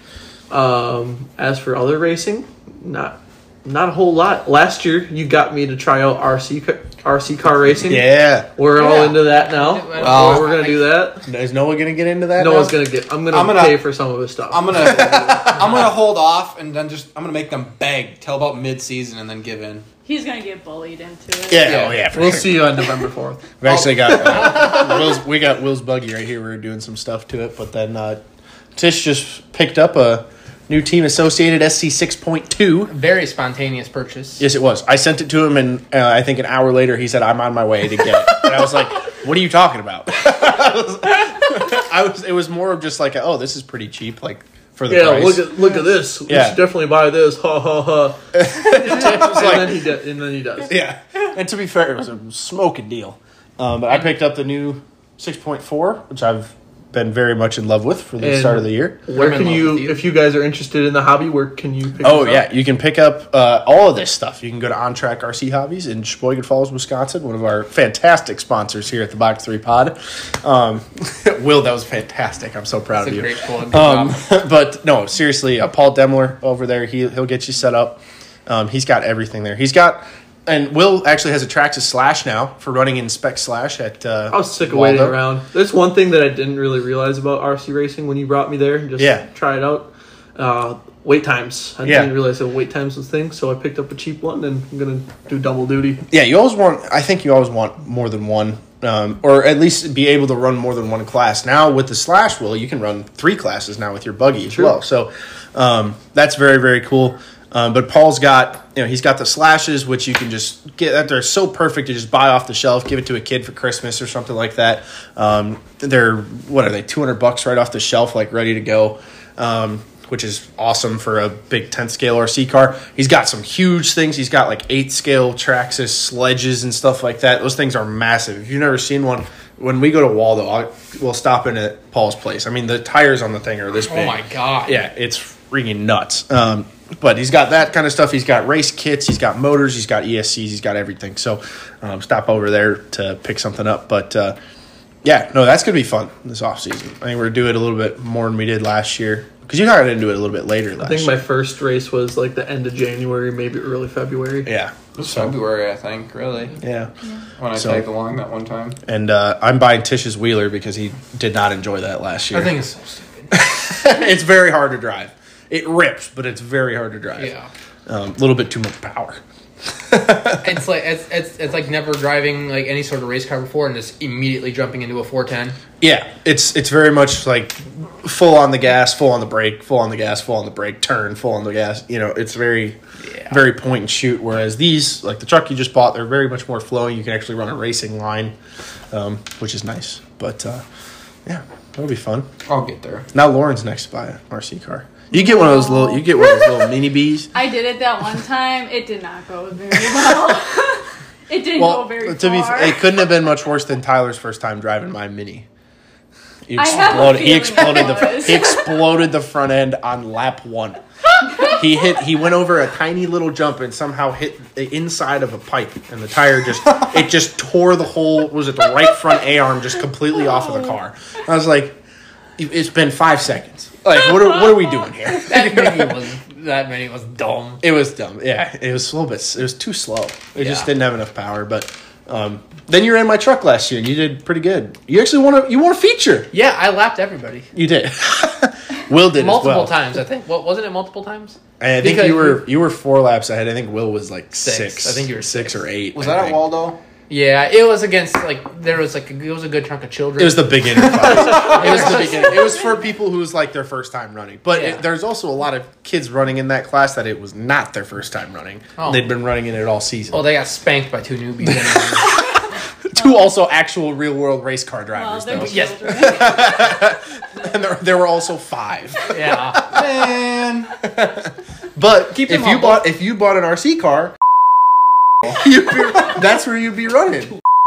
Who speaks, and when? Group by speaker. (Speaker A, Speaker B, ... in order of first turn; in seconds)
Speaker A: 0.5-11.2, 12.4-15.8, 22.1-23.5, 44.9-50.8, 58.2-62.5, 84.3-96.0, 150.8-154.5
Speaker B: 7.8-8.5, 11.2-12.8, 15.3-15.8, 21.5-22.7, 23.6-28.2, 28.8-32.9, 34.4-45.6, 46.3-46.6, 48.4-49.9, 50.6-59.0, 62.0-85.2, 89.0-89.2, 91.8-92.1, 96.1-144.4, 145.0-151.2, 154.4-155.3, 156.6-156.9, 157.5-157.8, 158.8-162.6, 163.3-167.3, 167.9-170.5, 175.8-182.8, 183.3-188.3, 188.9-190.6, 191.2-192.3, 193.1-197.3, 201.6-205.4, 206.5-210.8, 211.4-221.8, 222.4-226.0, 227.6-236.3, 237.5-239.8, 241.6-246.4, 250.2-260.2, 261.4-262.2, 262.9-269.9, 270.8-274.1, 275.2-277.3
Speaker C: 8.7-10.9, 32.9-34.5, 59.1-60.0, 72.9-74.2, 133.9-134.8, 162.3-163.3, 167.2-167.5, 170.4-175.6, 225.1-227.6, 230.3-230.7, 236.3-237.5, 239.1-242.4, 244.4-245.6, 247.1-252.4, 254.5-254.8, 258.8-259.1, 260.1-262.2, 265.4-266.1, 269.1-269.6, 272.1-272.9
Speaker D: 10.0-10.5, 13.3-13.8, 14.5-19.9, 21.6-22.0, 23.6-24.7, 154.9-156.6, 157.4-158.8, 192.4-193.1, 245.9-246.8, 269.6-270.7
Speaker E: 20.0-21.9, 195.1-196.7, 197.3-203.0, 206.6-208.7, 264.9-266.9